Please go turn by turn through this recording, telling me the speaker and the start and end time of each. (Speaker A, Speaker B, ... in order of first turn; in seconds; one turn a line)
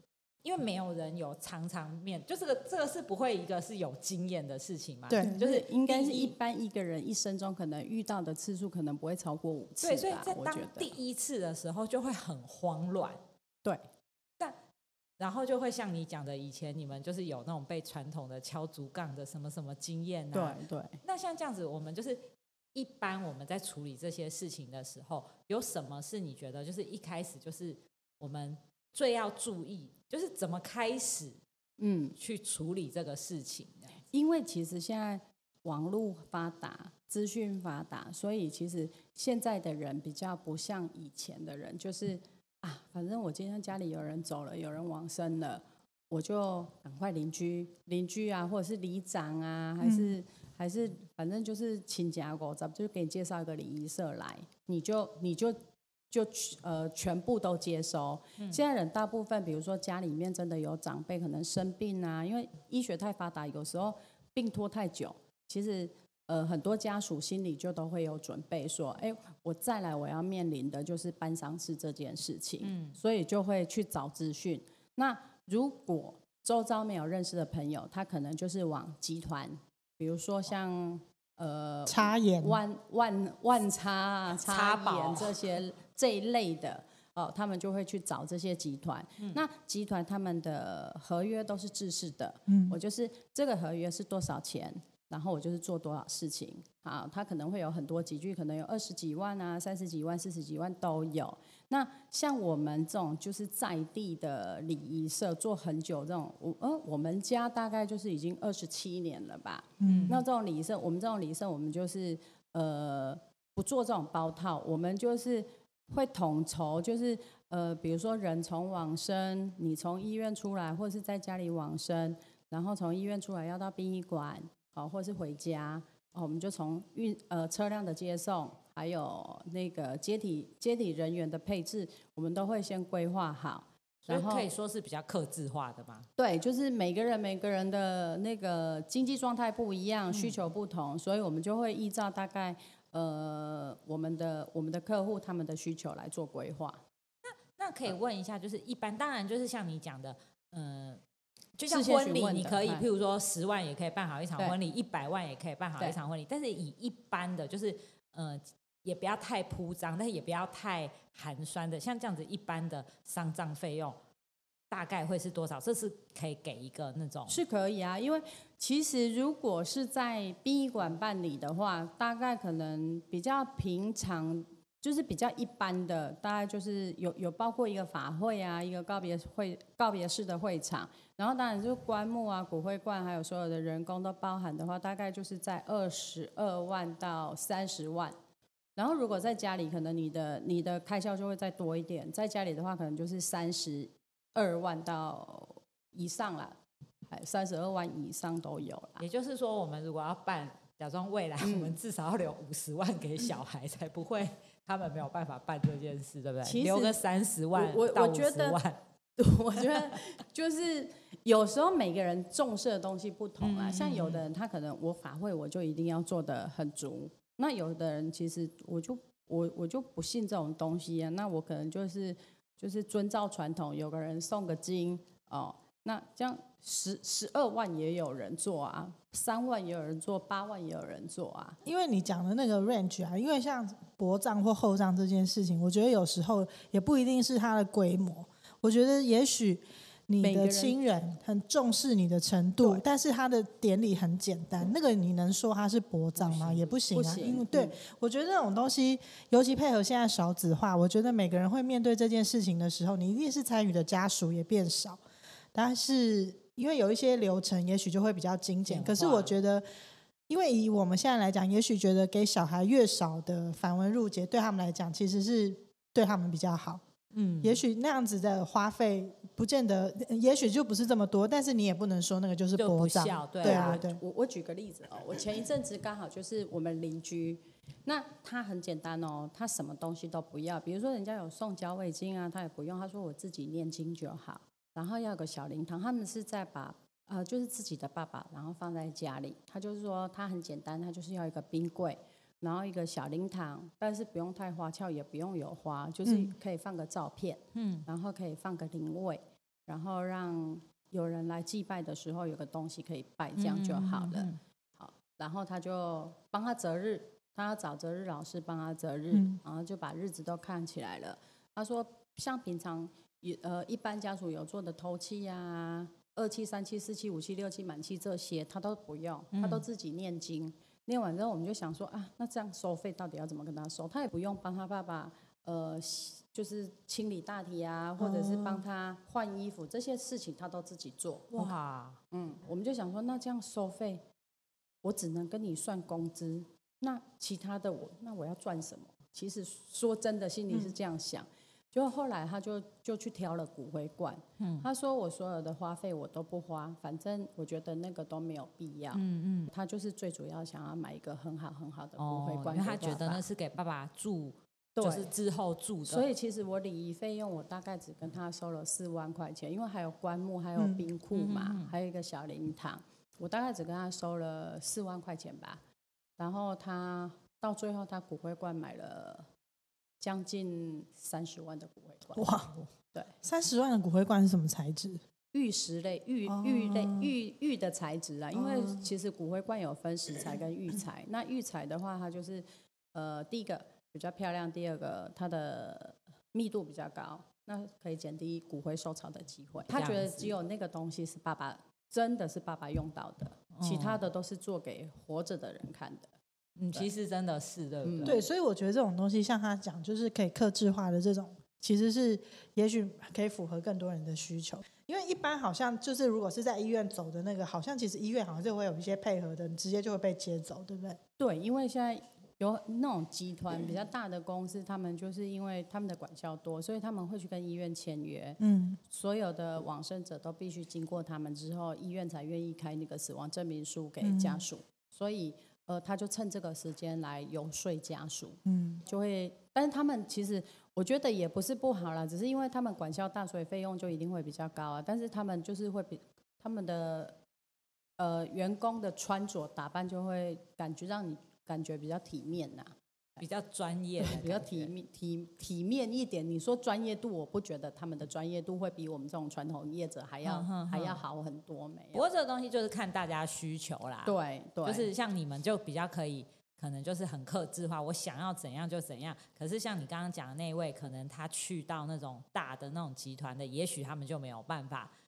Speaker A: 0.4-6.3
Speaker B: 5.1-5.3
Speaker C: 5.2-10.9
Speaker A: 9.8-13.2
Speaker A: 15.2-22.2
Speaker C: 20.3-21.0
Speaker A: 22.7-31.4
Speaker C: 31.8-32.1
Speaker A: 32.2-33.9
Speaker C: 34.1-134.5
Speaker B: 49.8-50.1
Speaker A: 72.6-73.0
Speaker B: 81.9-82.6
Speaker A: 84.4-85.4
Speaker B: 92.5-92.8
Speaker B: 109.8-110.2
Speaker A: 109.8-110.2
Speaker A: 134.1-136.1
Speaker C: 136.2-146.8
Speaker A: 147.2-151.0
Speaker A: 151.6-164.0
Speaker C: 151.7-152.9
Speaker A: 164.7-167.4
Speaker C: 167.3-188.1
Speaker C: 188.8-196.6
Speaker C: 197.1-199.0
Speaker A: 199.0-208.8
Speaker C: 201.4-201.8
Speaker C: 206.4-207.0
Speaker C: 207.5-208.6
Speaker C: 209.2-231.6
Speaker A: 213.4-214.2
Speaker B: 231.6-255.0
Speaker C: 240.2-240.8
Speaker C: 246.2-247.8
Speaker B: 255.5-259.6
Speaker A: 258.7-259.3
Speaker B: 260.3-266.8
Speaker A: 267.1-267.6
Speaker B: 267.4-274.0
Speaker A: 272.6-273.8
Speaker C: 273.4-331.4
Speaker B: 296.0-296.3
Speaker A: 297.5-297.9
Speaker A: 303.4-304.4
Speaker A: 319.3-319.6
Speaker B: 328.0-328.6
Speaker A: 331.3-332.0
Speaker C: 332.1-334.0
Speaker C: 334.8-353.2
Speaker A: 344.4-344.6
Speaker A: 348.9-349.5
Speaker A: 352.0-356.1
Speaker C: 354.8-355.1
Speaker C: 355.8-365.6
Speaker A: 361.1-361.7
Speaker C: 366.2-369.3
Speaker C: 370.0-372.4
Speaker B: 372.1-372.6
Speaker B: 373.2-375.0
Speaker C: 375.3-396.1
Speaker B: 376.3-377.1
Speaker B: 378.3-378.9
Speaker A: 389.7-390.3
Speaker A: 393.5-394.0
Speaker A: 396.6-398.2
Speaker C: 397.8-398.2
Speaker B: 398.0-411.0
Speaker C: 411.2-437.1
Speaker B: 418.4-418.8
Speaker B: 424.0-424.4
Speaker B: 428.4-428.8
Speaker C: 438.0-443.2
Speaker A: 443.2-444.7
Speaker C: 444.0-452.1
Speaker A: 450.2-451.0
Speaker A: 451.9-454.1
Speaker C: 454.0-454.9
Speaker A: 454.6-464.9